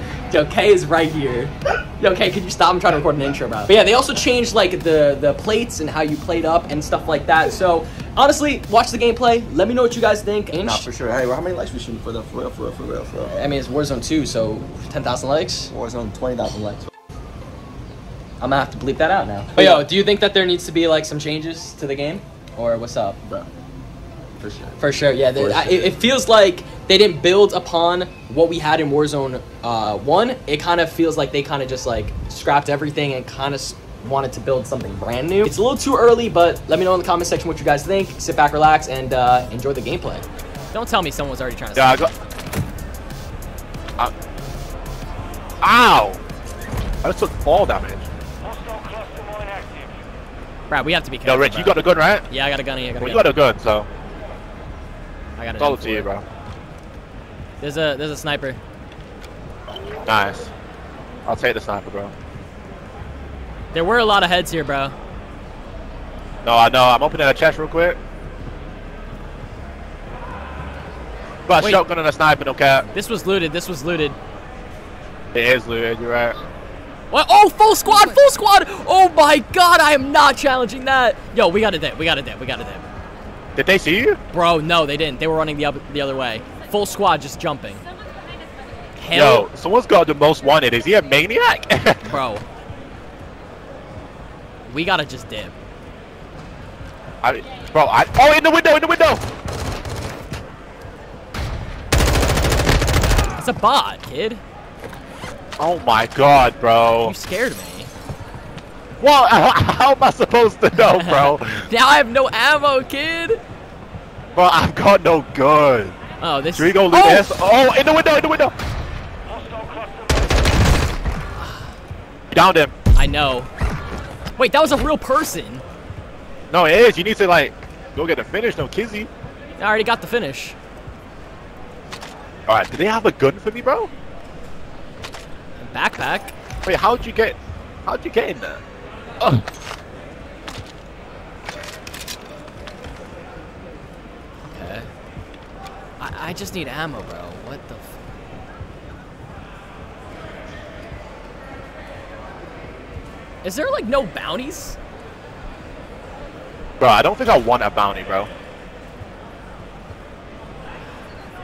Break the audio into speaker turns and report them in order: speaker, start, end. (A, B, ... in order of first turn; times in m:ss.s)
0:00.3-0:10.9 A
0:10.6-0:13.4 B
0:13.3-0:15.7 A
0:15.7-0:16.9 B
0:18.4-0:23.2 A
0:19.6-0:19.9 B
0:24.4-0:26.0 B
0:24.8-0:42.1 A
0:41.7-0:42.1 C
0:45.6-0:46.2 C
0:47.0-0:48.1 C
0:50.7-0:53.3 A
0:51.2-0:52.2 C
0:53.0-0:53.9 C
0:55.4-0:56.1 A
0:55.6-0:56.2 C
0:57.6-0:58.6 A
1:00.0-1:00.5 C
1:01.2-1:02.1 C
1:03.7-1:04.9 A
1:06.4-1:08.0 C
1:11.5-1:12.9 C
1:12.9-1:14.2 A
1:15.3-1:16.4 C
1:17.1-1:22.9 A
1:23.6-1:24.2 C
1:24.3-1:27.8 A
1:29.0-1:29.5 A
1:29.1-1:32.1 C
1:32.0-1:32.4 A
1:34.7-1:35.5 A
1:37.2-1:39.2 C
1:43.4-1:44.4 A
1:45.6-1:47.1 C
1:47.0-1:47.9 A
1:49.0-1:51.7 C
1:50.7-1:53.4 A
1:54.3-1:55.9 C
1:56.2-1:57.4 A
1:56.5-1:58.5 C
2:02.3-2:02.7 C
2:02.9-2:03.5 A
2:04.4-2:05.6 A
2:06.5-2:09.1 C
2:09.6-2:10.5 A
2:12.5-2:13.9 C
2:15.6-2:16.3 A
2:16.6-2:18.6 C
2:24.4-2:24.9 A
2:26.0-2:27.9 A
2:33.4-2:34.8 A
2:36.8-2:38.3 C